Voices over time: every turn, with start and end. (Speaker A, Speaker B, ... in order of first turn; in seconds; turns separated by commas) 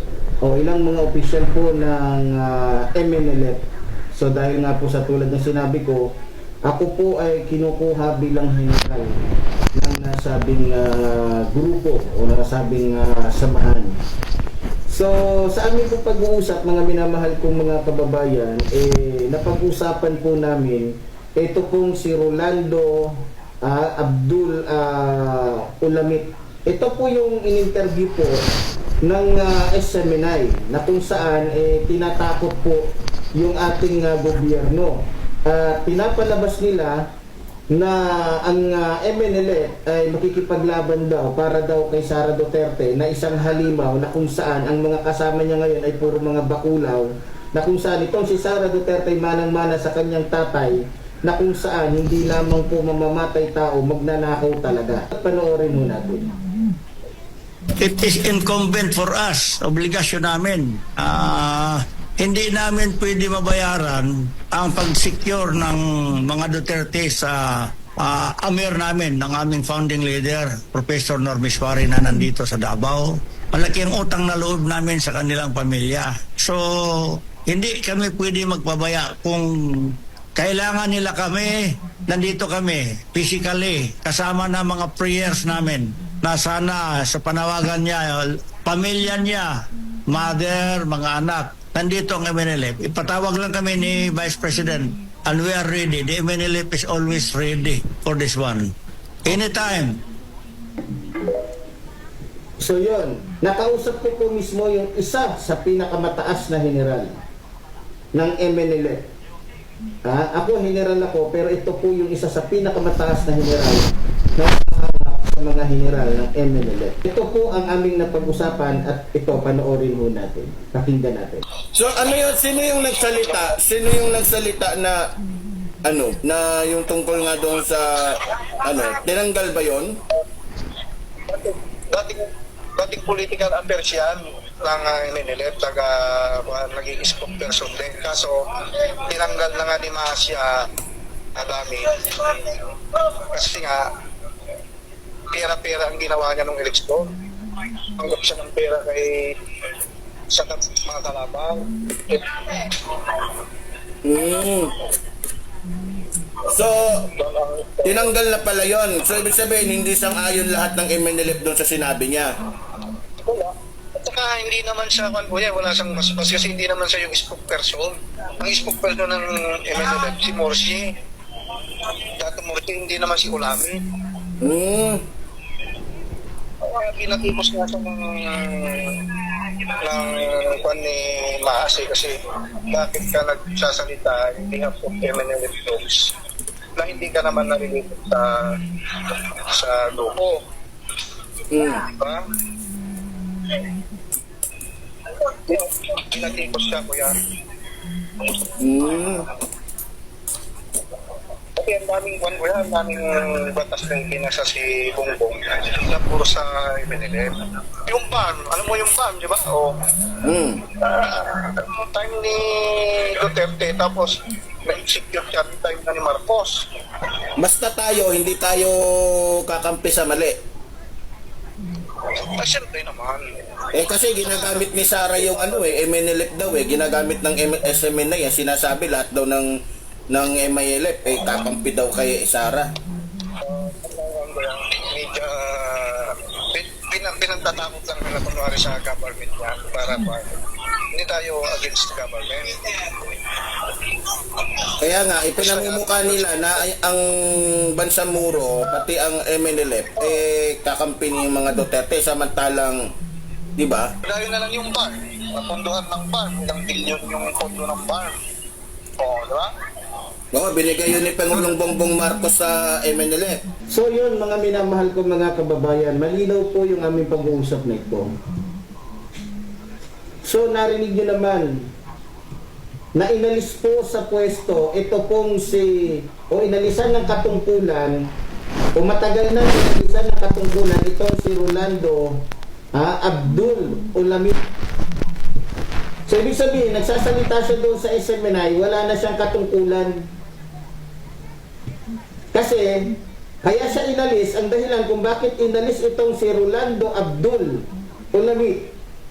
Speaker A: 0.4-6.1, Speaker A: 6.7-9.2, Speaker A: 9.8-14.0, Speaker A: 14.9-28.4, Speaker A: 29.0-37.0, Speaker A: 37.7-56.3, Speaker B: 57.8-89.6, Speaker B: 90.1-98.7, Speaker B: 99.3-100.0, Speaker A: 102.6-107.2, Speaker A: 108.1-109.0, Speaker A: 110.1-121.5, Speaker C: 121.7-125.0, Speaker C: 125.8-129.9, Speaker D: 131.3-140.7, Speaker D: 141.4-143.9, Speaker D: 145.3-147.1, Speaker D: 148.0-149.3, Speaker D: 150.3-153.3, Speaker C: 154.0-154.7, Speaker C: 156.5-157.0, Speaker D: 157.1-158.1, Speaker C: 157.8-162.3, Speaker D: 163.2-170.9, Speaker D: 172.2-173.8, Speaker C: 174.4-175.0, Speaker D: 176.6-186.1, Speaker D: 186.8-190.4, Speaker C: 191.5-191.9, Speaker D: 191.8-192.2, Speaker D: 195.2-197.2, Speaker C: 198.6-199.3, Speaker D: 201.6-209.8, Speaker C: 210.2-210.6, Speaker D: 210.7-216.7, Speaker C: 217.4-220.4, Speaker D: 222.1-223.7, Speaker C: 223.7-229.5, Speaker D: 224.3-224.6, Speaker D: 225.1-225.7, Speaker C: 230.1-232.7, Speaker D: 233.4-240.3, Speaker D: 240.9-242.9, Speaker C: 244.8-252.8, Speaker D: 245.4-246.6, Speaker C: 253.6-253.9, Speaker D: 254.0-258.1, Speaker D: 259.0-259.5, Speaker C: 260.3-263.4, Speaker A: 263.7-268.1, Speaker A: 270.2-271.7, Speaker A: 272.9-278.1, Speaker A: 278.8-284.4, Speaker A: 286.1-290.1, Speaker A: 292.3-292.9, Speaker A: 293.4-298.7